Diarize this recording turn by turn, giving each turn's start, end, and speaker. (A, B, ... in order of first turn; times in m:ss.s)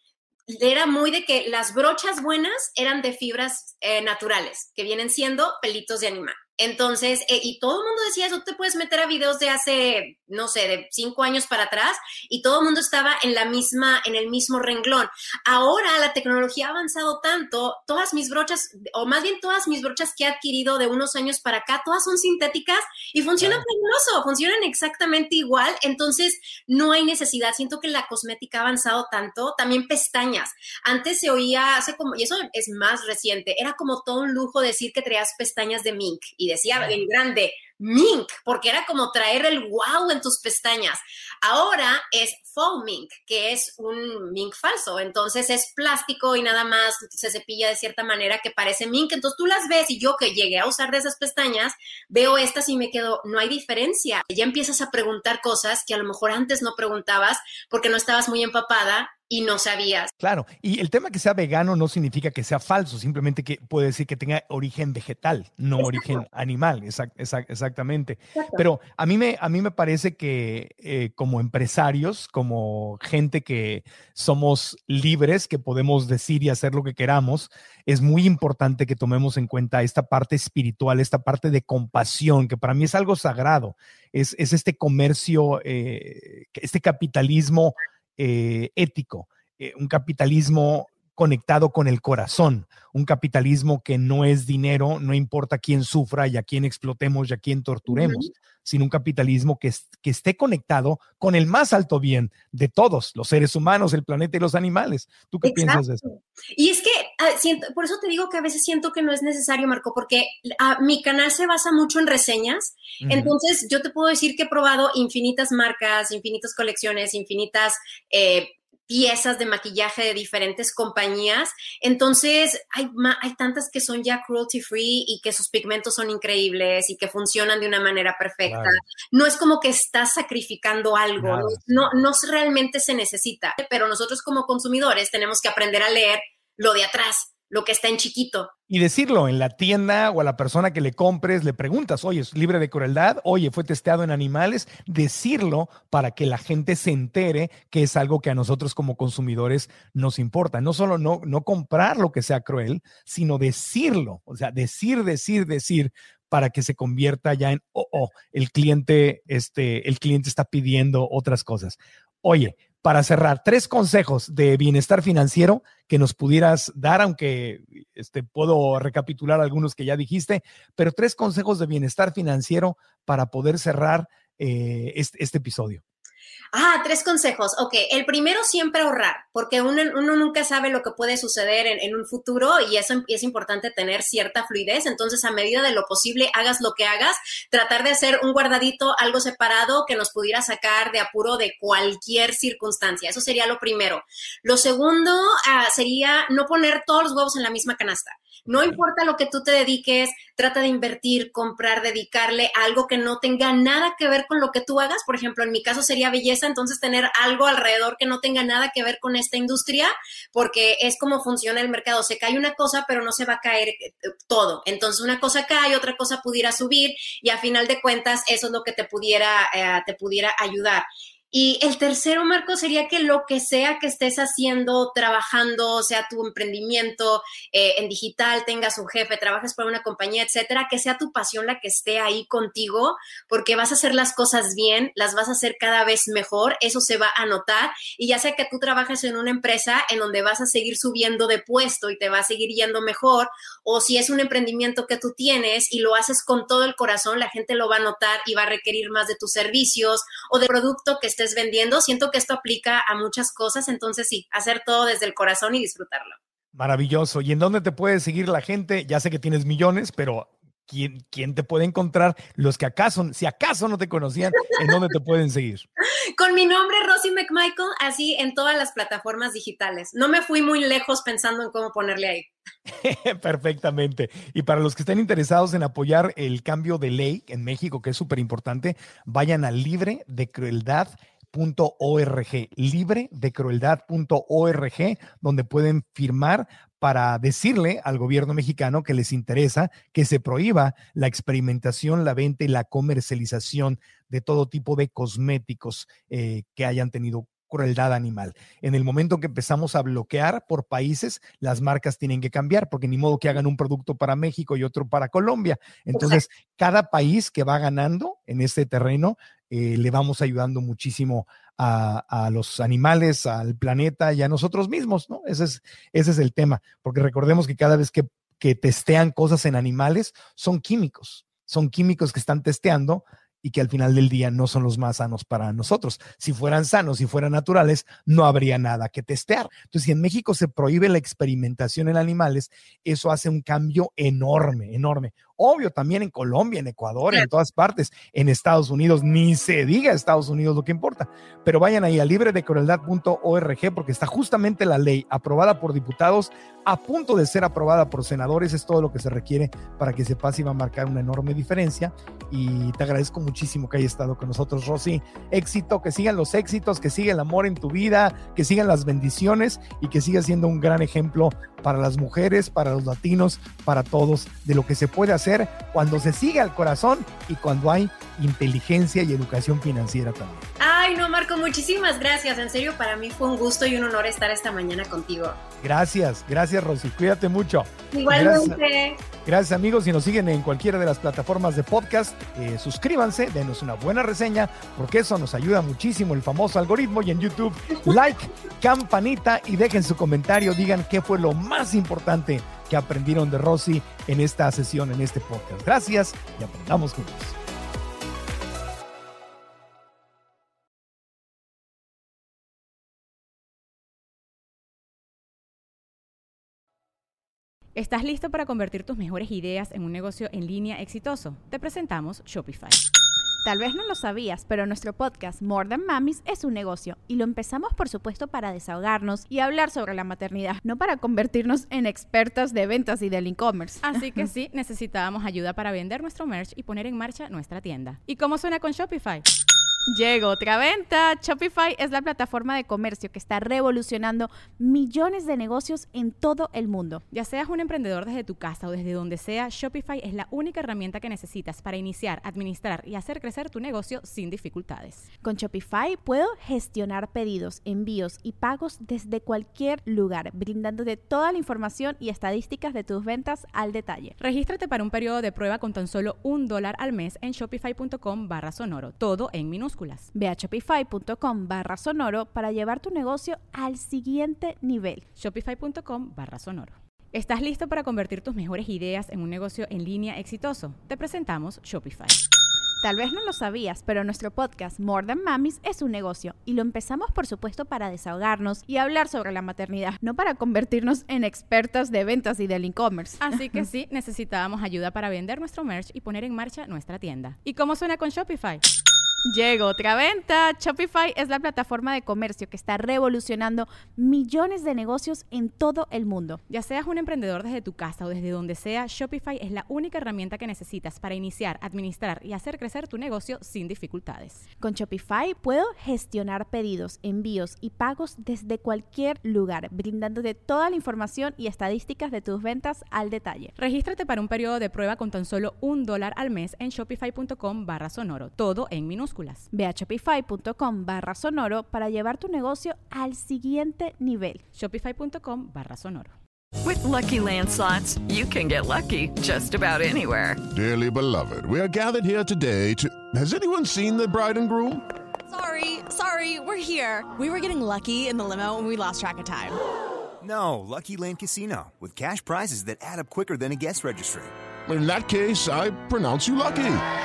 0:00.5-1:00.1 A
0:23.4-0:23.6 B
1:00.2-1:46.0 B
1:08.4-1:08.6 A
1:37.9-1:38.3 A
1:45.4-2:18.5 A
1:53.0-1:53.4 B
2:08.5-2:08.8 B
2:11.2-2:12.0 B
2:18.7-2:55.8 B
2:56.5-4:16.2 A
3:18.5-3:18.8 B
4:16.5-4:25.7 B
4:25.8-4:32.3 A
4:32.8-6:10.4 B
5:06.0-5:06.2 A
6:10.6-6:15.4 A
6:15.6-6:18.6 B
6:17.9-6:19.0 A
6:19.2-6:37.4 B
6:47.8-6:52.8 C
6:53.4-7:04.2 D
7:03.8-7:09.2 C
7:09.9-7:17.0 D
7:17.1-7:25.1 C
7:25.2-7:34.2 D
7:34.2-7:40.1 C
7:40.2-7:45.0 D
7:45.2-7:52.2 C
7:52.8-8:03.6 D
8:03.2-8:08.6 C
8:09.3-8:16.4 D
8:16.5-8:24.4 C
8:24.6-8:33.5 D
8:33.6-8:39.5 C
8:39.5-8:44.4 D
8:44.5-8:46.2 C
8:46.6-8:50.4 E
8:50.5-8:54.9 F
8:55.3-8:59.6 G
9:00.2-9:04.3 H
9:04.7-9:06.8 F